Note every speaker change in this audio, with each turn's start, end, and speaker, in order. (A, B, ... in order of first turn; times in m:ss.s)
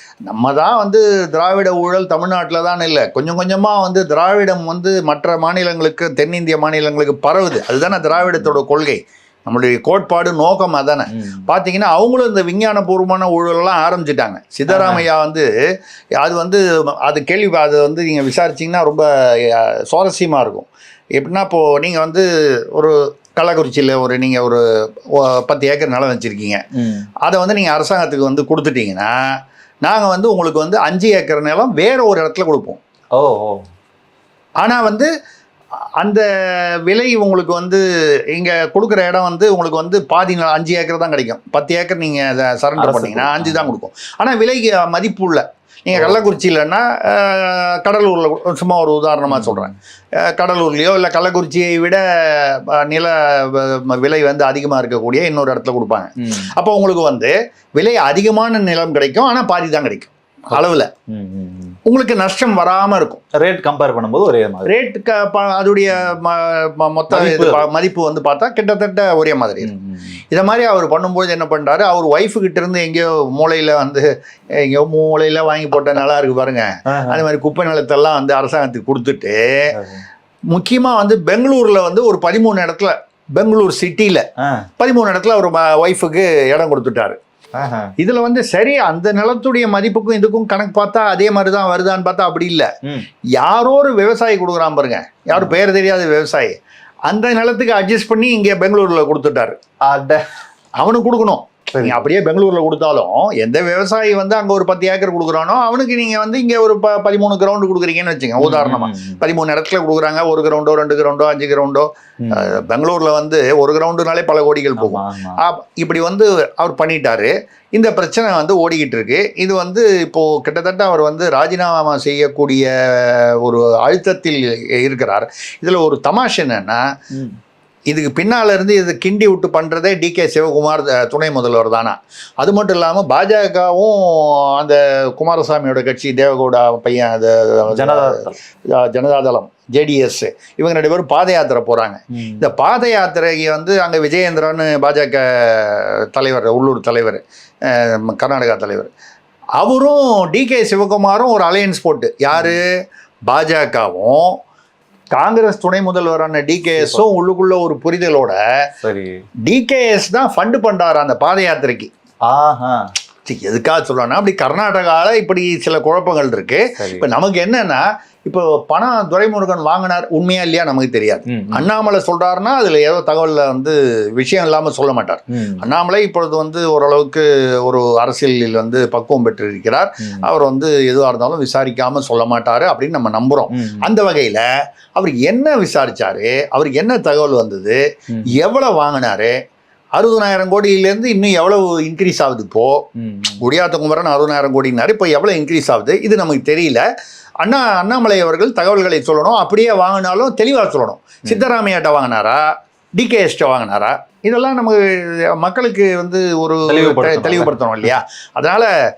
0:00.3-0:15.5 A
0:11.1-0:11.4 B
0:14.7-0:15.0 B
0:16.2-0:24.6 A
0:25.1-0:26.6 A
0:26.8-0:27.1 B
0:27.2-0:29.1 A
0:29.8-0:32.8 A
0:33.1-0:33.6 B
0:34.6-0:35.1 A
0:36.9-0:37.8 A
0:38.3-0:49.7 A
0:42.8-0:43.7 B
0:49.3-0:49.7 B
0:50.2-1:00.9 A
1:01.1-1:01.8 B
1:01.9-1:03.2 A
1:03.3-1:04.7 B
1:04.6-1:09.7 A
1:07.1-1:07.7 B
1:09.6-1:10.2 B
1:10.3-1:14.0 A
1:14.6-1:19.4 A
1:16.9-1:17.2 B
1:19.8-1:20.0 B
1:20.5-1:24.2 A
1:24.8-1:27.2 A
1:27.6-1:27.9 B
1:28.0-1:32.7 A
1:33.4-1:36.5 A
1:37.1-1:39.6 A
1:39.9-1:40.2 B
1:40.8-2:06.8 A
1:41.7-1:42.1 B
1:48.4-1:49.2 B
1:52.2-1:52.5 B
1:54.8-1:55.4 B
2:07.9-2:18.2 A
2:17.7-2:18.4 B
2:18.7-2:28.9 A
2:22.2-2:22.5 B
2:29.6-2:32.7 A
2:33.3-2:34.4 A
2:35.1-2:38.4 A
2:38.8-2:39.2 B
2:39.4-2:41.9 A
2:42.3-2:42.9 B
2:43.2-3:04.4 A
2:46.8-2:47.1 B
2:51.3-2:51.7 B
2:55.3-2:55.6 B
3:03.5-3:03.8 B
3:04.9-3:07.8 A
3:08.3-3:09.3 A
3:10.0-3:12.8 A
3:13.0-3:13.4 B
3:13.4-3:16.8 A
3:17.4-3:22.4 A
3:23.0-3:28.7 A
3:26.7-3:27.5 B